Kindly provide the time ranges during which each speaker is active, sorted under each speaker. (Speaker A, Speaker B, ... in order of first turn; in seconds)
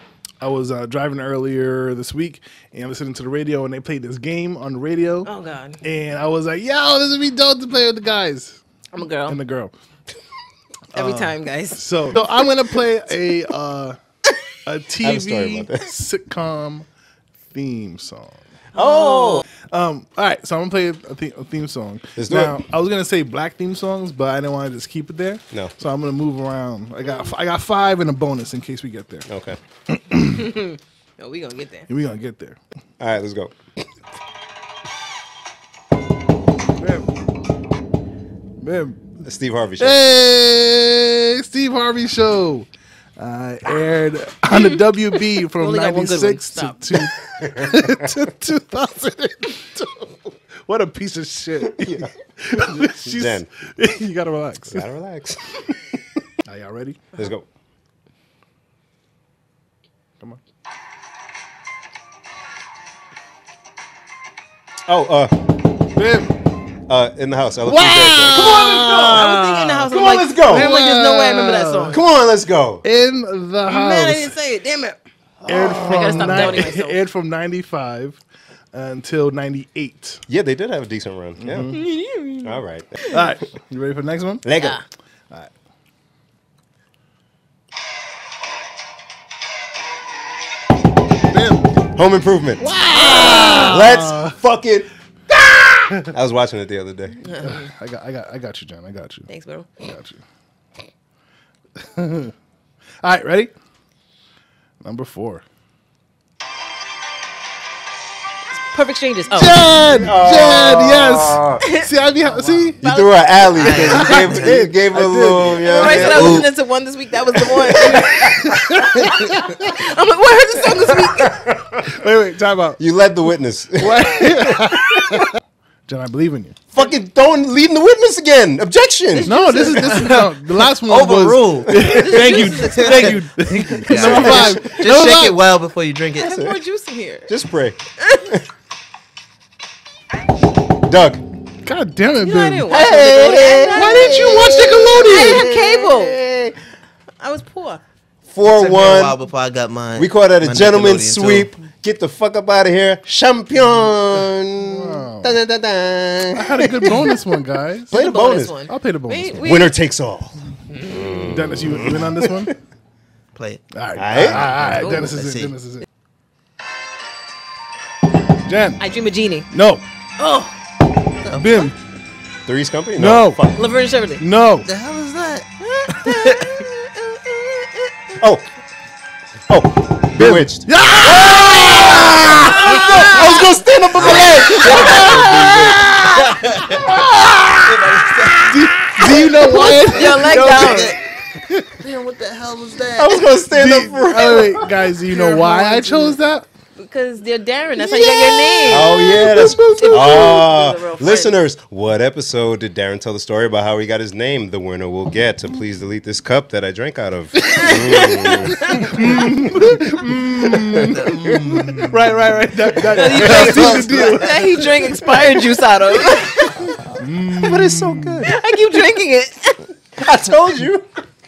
Speaker A: 0.4-5.3, 5.8-8.6, 9.3-9.7, 10.9-14.0, 14.6-16.9, 17.5-18.4, 19.7-29.3, 29.9-30.4, 31.9-32.6, 36.8-37.0, 38.6-39.1, 39.8-50.1, 50.6-54.9, 55.9-57.0, 65.9-66.3, 67.6-69.3, 70.4-72.0, 72.8-74.3, 75.5-78.2, 78.7-80.2, 81.4-81.8, 83.1-84.4, 91.3-91.7, 92.6-94.3, 97.4-99.3, 99.8-100.2, 101.8-102.3, 103.0-103.5, 104.8-105.4, 109.3-112.8, 114.0-116.3, 117.9-119.5, 121.8-122.8, 123.8-126.6, 129.2-135.4, 141.6-142.9, 143.7-145.5, 154.6-155.4, 156.3-157.9, 158.7-159.5, 161.2-162.5, 163.7-165.9, 168.4-168.8, 169.5-169.8, 171.3-171.7, 172.9-173.5, 174.2-174.7, 180.1-183.1, 184.1-187.7, 188.4-191.7, 193.5-196.4, 198.9-200.0, 208.7-214.9, 216.9-218.2
Speaker B: 5.2-5.8, 8.9-9.4, 10.9-12.3, 18.8-19.4, 30.2-31.9, 44.5-47.1, 69.1-72.0, 73.7-75.0, 75.8-77.0, 81.7-83.2, 84.6-84.8, 93.2-93.7, 97.2-97.7, 99.3-99.7, 108.6-109.5, 111.6-111.9, 112.8-114.2, 115.6-121.3, 129.1-130.3, 131.9-133.0, 136.2-137.3, 138.0-138.3, 142.2-144.1, 145.0-146.2, 147.2-147.8, 157.9-159.7, 160.7-161.2, 164.7-165.2, 168.8-169.5, 170.2-170.6, 173.6-174.2, 175.8-176.7, 182.8-184.9, 189.7-190.9, 195.1-196.1, 196.8-199.0, 199.8-201.3, 207.4-208.9, 212.9-216.9, 218.2-219.7
Speaker C: 15.0-15.8, 22.1-22.6, 29.3-29.6, 33.0-33.6, 39.2-40.0, 47.4-48.1, 51.7-52.1, 52.8-53.5, 54.7-55.4, 57.1-57.5, 64.9-65.3, 66.9-70.7, 71.9-72.8, 75.4-76.7, 80.3-81.7, 82.4-82.9, 84.4-84.8, 91.9-97.2, 109.7-111.6, 112.8-116.5, 117.5-118.4, 121.0-121.8, 122.8-125.2, 126.7-129.3, 133.9-134.6, 136.3-136.6, 137.3-138.4, 140.9-141.2, 142.7-144.3, 148.3-149.2, 149.9-157.2, 157.9-158.6, 159.4-162.5, 163.9-164.9, 172.4-173.7, 178.2-178.4, 179.5-185.8, 192.9-194.8, 198.6-208.8, 213.2-213.7, 217.3-218.3, 219.9-220.9
Speaker D: 19.0-19.4, 113.5-114.5, 116.0-116.5, 130.8-136.4, 142.7-146.2, 148.4-151.5, 163.3-163.6, 164.2-165.5, 171.2-171.7, 174.6-176.7, 181.0-182.2, 183.9-187.0, 187.6-191.0, 191.8-193.3, 198.2-198.9, 210.7-212.0, 212.8-214.5